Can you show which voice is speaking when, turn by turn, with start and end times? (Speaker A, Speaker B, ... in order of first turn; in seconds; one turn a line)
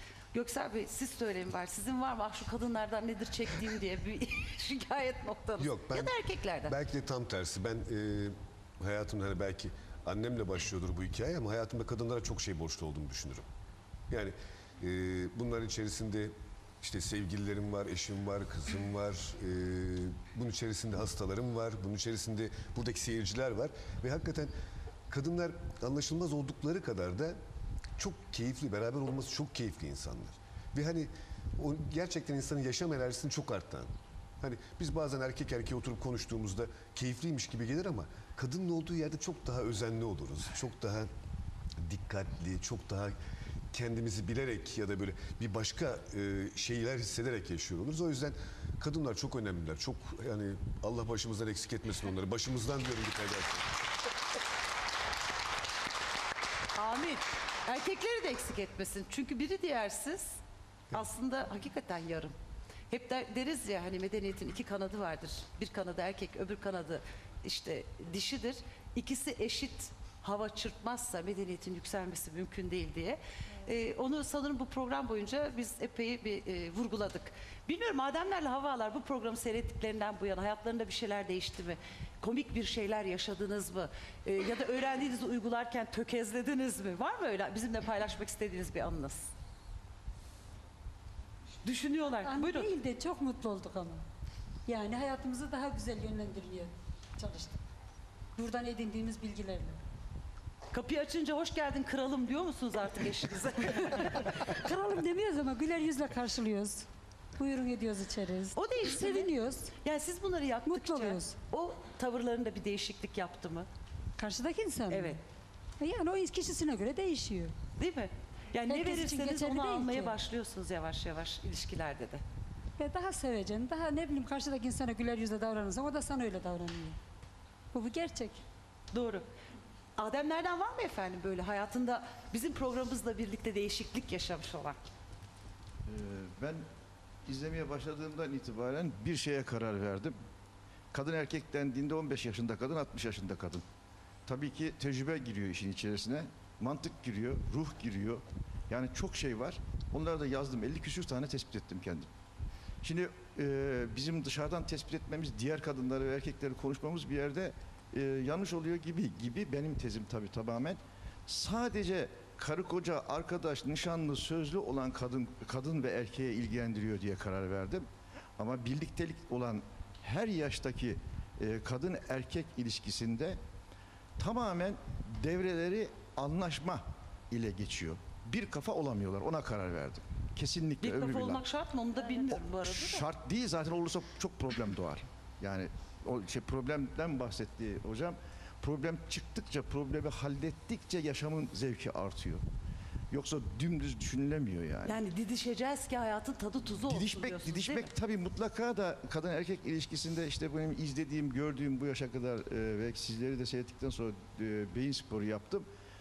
Speaker A: 0.3-6.8
Speaker B: 5.6-13.4
Speaker B: 14.1-24.5
Speaker B: 25.1-27.4
Speaker B: 28.0-41.1
Speaker B: 41.8-43.1
Speaker B: 43.7-53.7
Speaker A: 56.7-60.4
Speaker A: 60.9-62.3
Speaker A: 62.9-89.3
Speaker A: 91.6-92.7
Speaker C: 92.2-94.0
Speaker C: 94.7-97.6
Speaker C: 98.3-99.8
Speaker A: 100.7-104.3
Speaker C: 103.8-106.9
Speaker C: 107.4-109.7
Speaker A: 108.5-113.7
Speaker C: 110.7-111.4
Speaker C: 114.2-115.2
Speaker A: 114.9-115.2
Speaker C: 115.8-117.5
Speaker A: 117.8-122.2
Speaker C: 118.7-120.2
Speaker C: 122.8-127.0
Speaker C: 127.7-128.4
Speaker A: 128.9-129.2
Speaker A: 130.0-134.8
Speaker D: 135.8-136.6
Speaker D: 137.2-140.1
Speaker D: 140.9-143.6
Speaker D: 144.2-152.1
Speaker D: 152.8-167.8
Speaker D: 168.4-173.4
Speaker D: 174.2-181.4
Speaker A: 180.8-183.1
Speaker D: 182.3-192.4
Speaker D: 193.1-195.0
Speaker A: 194.8-197.9
Speaker D: 196.8-205.7